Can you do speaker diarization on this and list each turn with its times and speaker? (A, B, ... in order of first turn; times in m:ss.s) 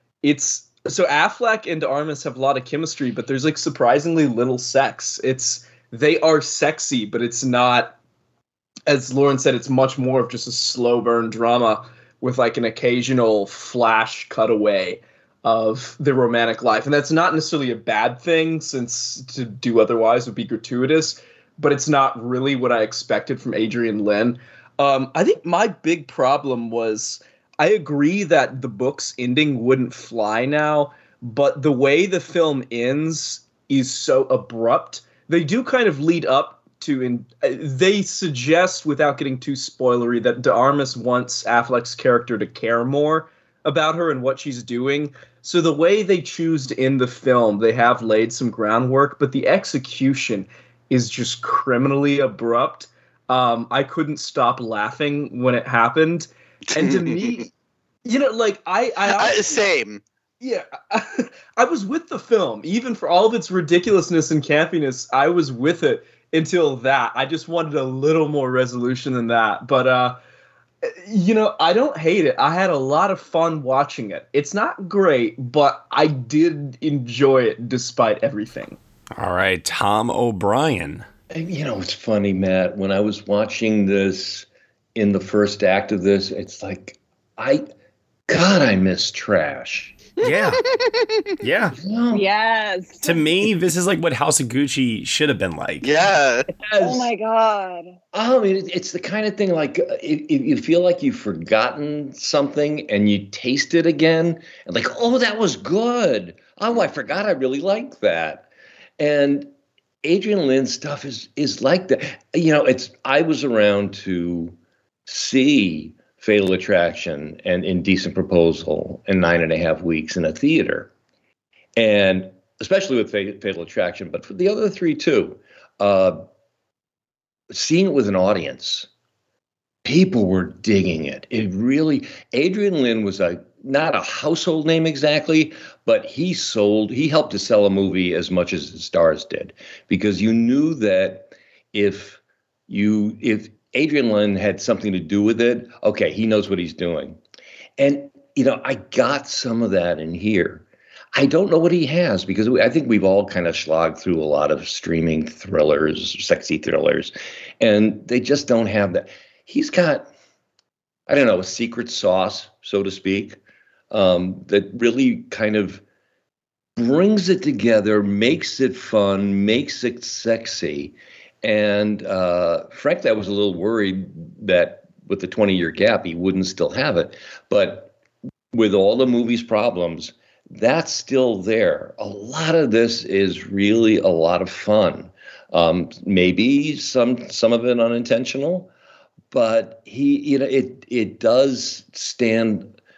0:00.2-0:08.0 A
0:08.9-0:57.5 A
0:56.7-0:57.3 B
0:58.0-0:59.6 A
0:59.0-1:00.0 B
1:00.4-1:10.2 A
1:10.8-1:18.8 A
1:19.2-1:21.0 C
1:21.3-1:27.7 D
1:28.3-1:30.0 D
1:30.2-1:30.6 C
1:30.2-1:31.3 B
1:31.4-1:31.8 C
1:31.8-1:32.3 D
1:32.1-1:33.1 E
1:33.0-1:35.9 C
1:35.8-1:36.5 B
1:36.5-1:37.1 D
1:36.8-1:38.0 E
1:38.1-1:48.5 D
1:49.0-1:49.5 D
1:50.0-1:54.6 D
1:55.1-2:00.9 D
2:01.8-2:06.2 D
2:07.5-2:08.9 D
2:09.8-2:27.2 D
2:27.8-2:40.1 D
2:41.1-2:43.4 D
2:43.9-2:45.8 D
2:46.8-2:57.9 D
2:58.5-3:08.7 D
3:09.3-3:12.7 D